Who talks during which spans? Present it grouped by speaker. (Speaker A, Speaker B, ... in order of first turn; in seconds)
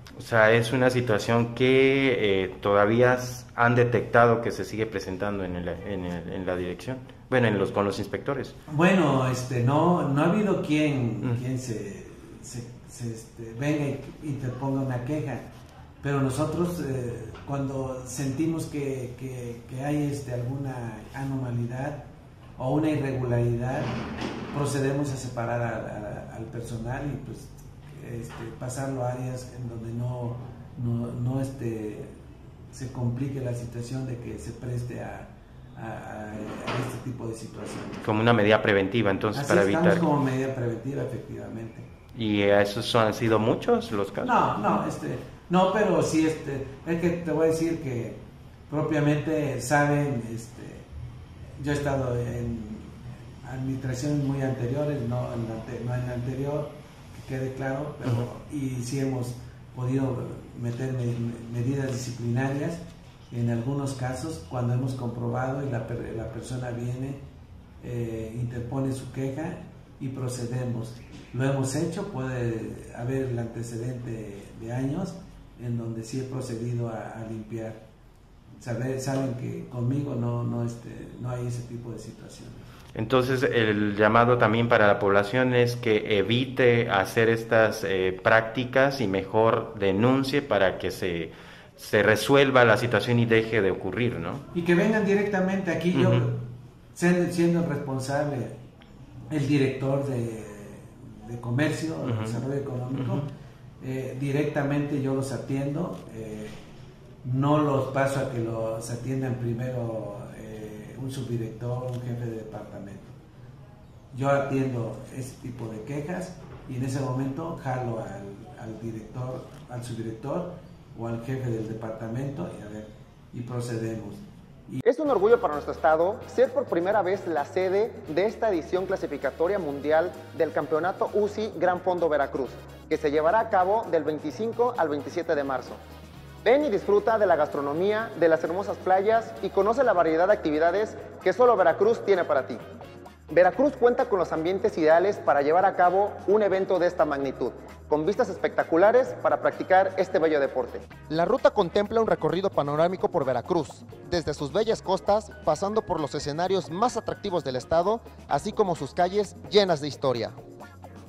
Speaker A: 0.2-8.6, 38.0-40.1, 42.1-44.4, 83.0-94.4, 95.9-96.3, 102.0-102.4, 102.9-103.2
Speaker B: 8.7-15.5, 16.0-24.0, 24.5-32.1, 32.7-38.1, 39.3-41.9, 44.2-50.9, 51.6-67.2, 67.8-77.8, 78.6-82.7, 94.5-98.6, 99.3-103.3, 103.8-106.6, 107.2-113.2, 114.1-124.8
Speaker C: 124.8-135.8, 136.4-142.6, 143.3-160.4